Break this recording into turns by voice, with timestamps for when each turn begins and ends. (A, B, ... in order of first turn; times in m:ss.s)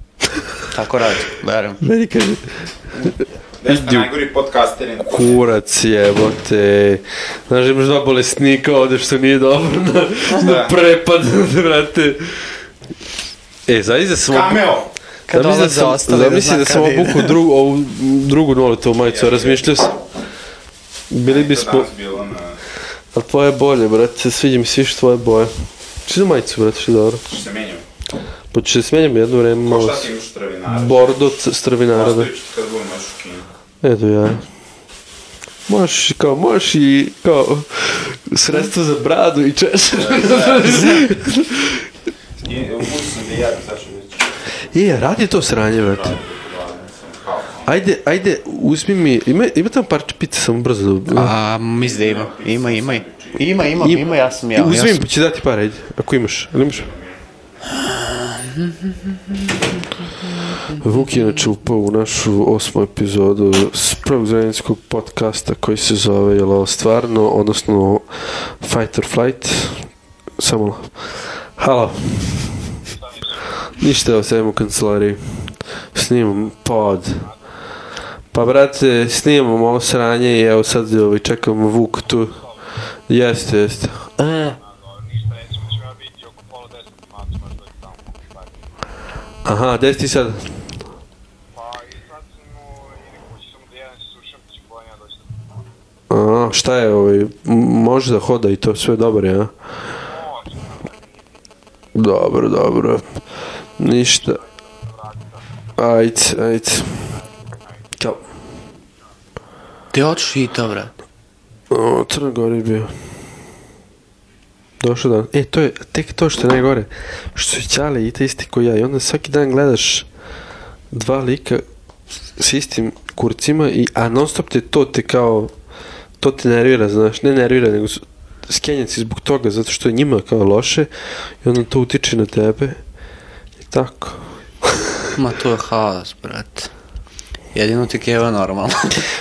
0:00.7-0:01.8 A
0:01.8-0:04.1 B
0:03.6-0:05.4 C
0:05.1-0:12.5 B
0:10.4-0:10.8 C
0:13.7-0:14.7 B
0:14.3-0:14.9 C
0:15.3-0:17.3 A
0:15.3-0:20.0 B
0:19.0-0:19.9 C
0:21.1-0:21.9 B
0:21.3-0:22.6 C
0:23.1-0:27.3 B
0:27.3-0:27.8 C
0:28.5-0:30.1 B
0:29.6-0:31.2 C
0:30.7-0:32.3 B
0:31.9-0:33.5 C
0:33.8-0:34.4 B
0:35.7-0:41.9 B
0:39.9-0:41.0 C
0:42.4-0:44.3 C
0:44.7-0:46.2 B
0:45.6-0:47.8 C
0:47.6-0:51.3 B
0:51.1-0:55.0 A
0:51.8-0:54.3 C
0:53.8-0:56.9 B
0:56.6-0:57.2 C
0:57.7-1:00.8 A
1:00.7-1:09.9 B
1:10.4-1:12.8 B
1:13.6-1:17.3 B
1:18.3-1:22.4 B
1:23.1-1:24.6 B
1:29.4-1:30.7 B
1:36.1-1:39.5 B
1:41.9-1:43.0 B
1:43.8-1:44.4 B
1:45.8-1:47.2 B
1:48.0-1:48.2 B
1:49.9-1:50.9 A
1:51.7-1:52.9 B
1:54.8-2:00.1 B
2:00.9-2:01.6 B
2:02.4-2:05.5 B
2:06.2-2:10.9 B
2:11.4-2:12.8 B
2:13.7-2:14.9 B
2:15.2-2:16.7 A
2:17.5-2:19.1 A